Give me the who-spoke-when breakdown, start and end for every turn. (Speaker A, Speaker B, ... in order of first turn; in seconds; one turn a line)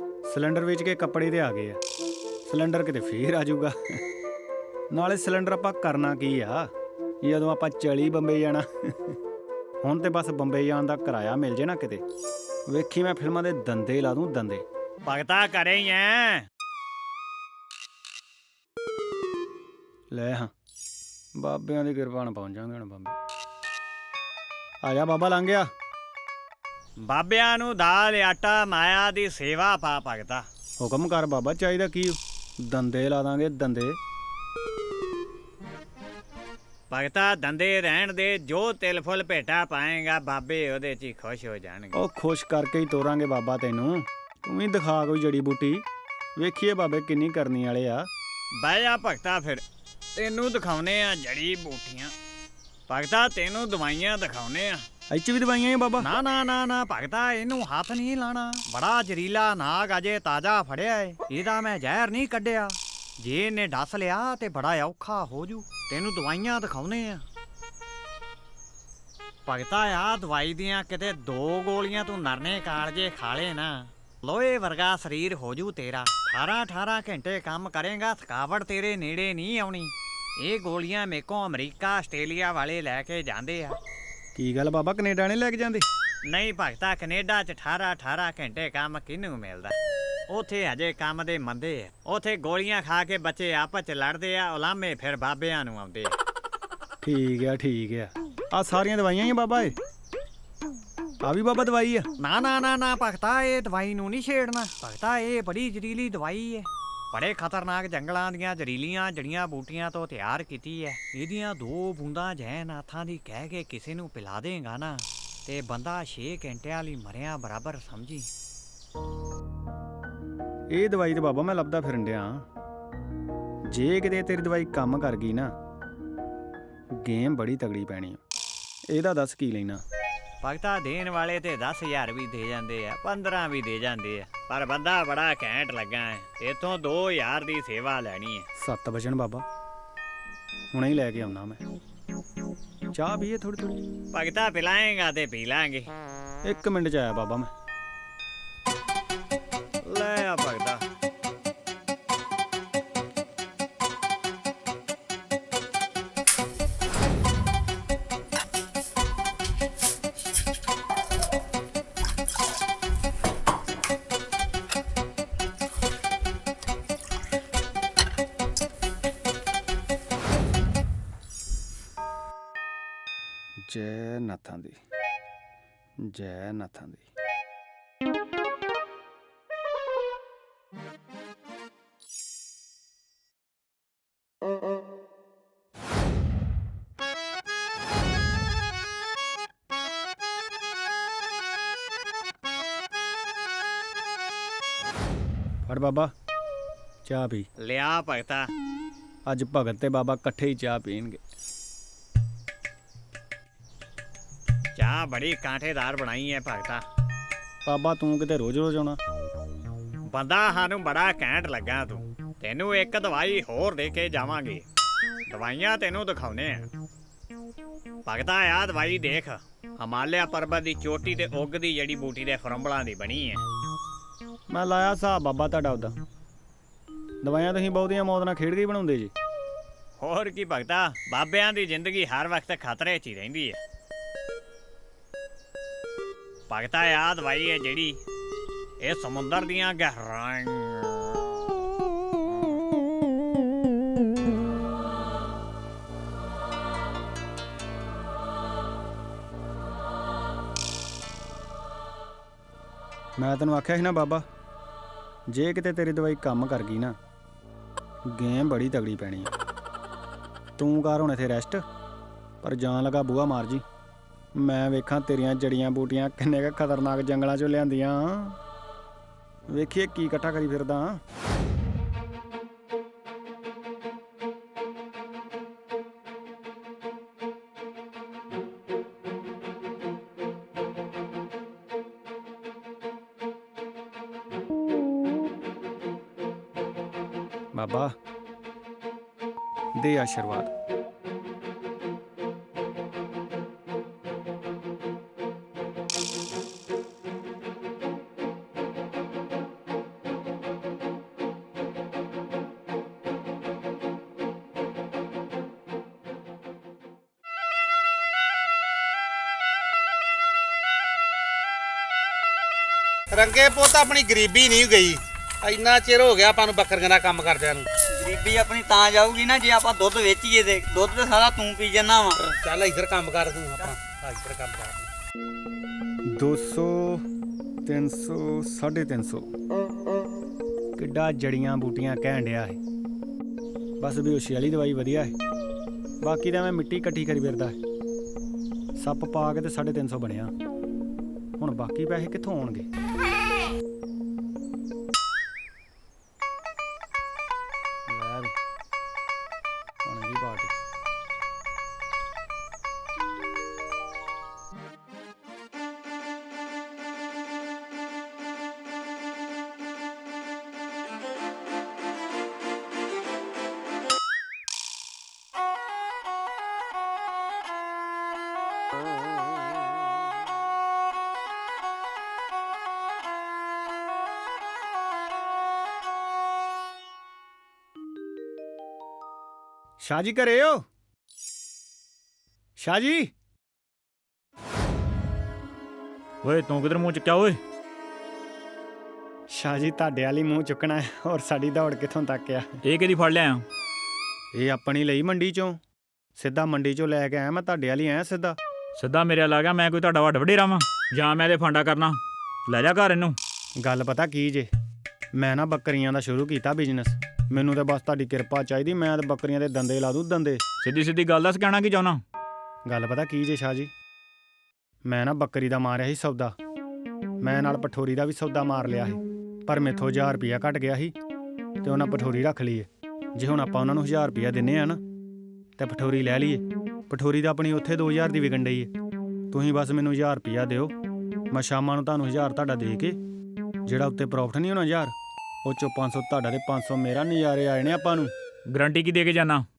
Speaker A: 0.2-1.8
Speaker A: 2.5-4.0
Speaker A: 4.9-6.7
Speaker A: 7.2-9.2
Speaker A: 9.8-12.0
Speaker A: 12.7-14.6
Speaker B: 15.0-16.4
Speaker A: 20.1-20.5
Speaker A: 21.3-23.1
Speaker A: 24.8-25.7
Speaker B: 27.0-30.4
Speaker A: 30.8-34.0
Speaker B: 36.9-42.0
Speaker A: 41.9-45.8
Speaker A: 46.4-48.1
Speaker B: 48.6-49.6
Speaker B: 50.1-52.1
Speaker B: 52.9-54.8
Speaker A: 55.1-56.1
Speaker B: 56.0-67.2
Speaker B: 69.5-83.8
Speaker A: 84.3-85.8
Speaker B: 86.3-89.8
Speaker B: 90.3-96.2
Speaker A: 97.0-99.7
Speaker A: 101.2-102.1
Speaker B: 102.2-118.3
Speaker A: 120.7-122.5
Speaker A: 123.7-125.5
Speaker A: 127.0-128.2
Speaker A: 128.9-129.8
Speaker B: 130.4-138.5
Speaker A: 138.6-139.4
Speaker A: 140.7-141.6
Speaker A: 142.9-143.8
Speaker B: 144.1-145.9
Speaker A: 146.4-147.5
Speaker B: 149.8-150.8
Speaker A: 173.6-174.8
Speaker A: 176.0-177.1
Speaker A: 195.7-196.1
Speaker A: 197.0-197.5
Speaker B: 197.6-198.5
Speaker A: 199.3-201.2
Speaker B: 204.8-206.8
Speaker A: 207.7-209.0
Speaker B: 210.1-214.6
Speaker B: 215.3-216.7
Speaker B: 218.1-223.4
Speaker A: 224.5-225.9
Speaker A: 227.2-229.1
Speaker B: 230.0-233.6
Speaker B: 236.5-238.0
Speaker B: 238.8-241.5
Speaker A: 253.2-254.2
Speaker A: 255.3-257.0
Speaker A: 258.1-259.3
Speaker A: 260.6-261.6
Speaker A: 262.4-263.6
Speaker A: 264.3-268.4
Speaker A: 269.5-271.0
Speaker A: 287.5-287.9
Speaker A: 289.7-290.5
Speaker C: 313.1-317.7
Speaker D: 317.9-322.2
Speaker C: 322.4-324.9
Speaker A: 326.1-327.0
Speaker A: 327.6-329.3
Speaker A: 330.8-332.6
Speaker A: 333.8-335.1
Speaker A: 336.0-337.6
Speaker A: 338.8-340.3
Speaker A: 341.4-342.7
Speaker A: 347.9-348.3
Speaker A: 349.8-350.5
Speaker A: 379.8-380.6
Speaker A: 382.6-383.1
Speaker E: 386.2-387.4
Speaker A: 389.3-392.6
Speaker E: 392.6-393.4
Speaker A: 394.3-395.6
Speaker A: 396.1-398.4
Speaker E: 398.8-403.2
Speaker A: 403.6-404.5
Speaker A: 405.1-410.4
Speaker E: 410.6-412.0
Speaker A: 412.6-413.7
Speaker A: 414.8-416.4
Speaker A: 417.2-420.9
Speaker A: 421.6-424.8
Speaker A: 425.6-428.7
Speaker A: 429.3-430.7
Speaker A: 431.3-433.0
Speaker A: 433.6-438.1
Speaker E: 438.5-439.4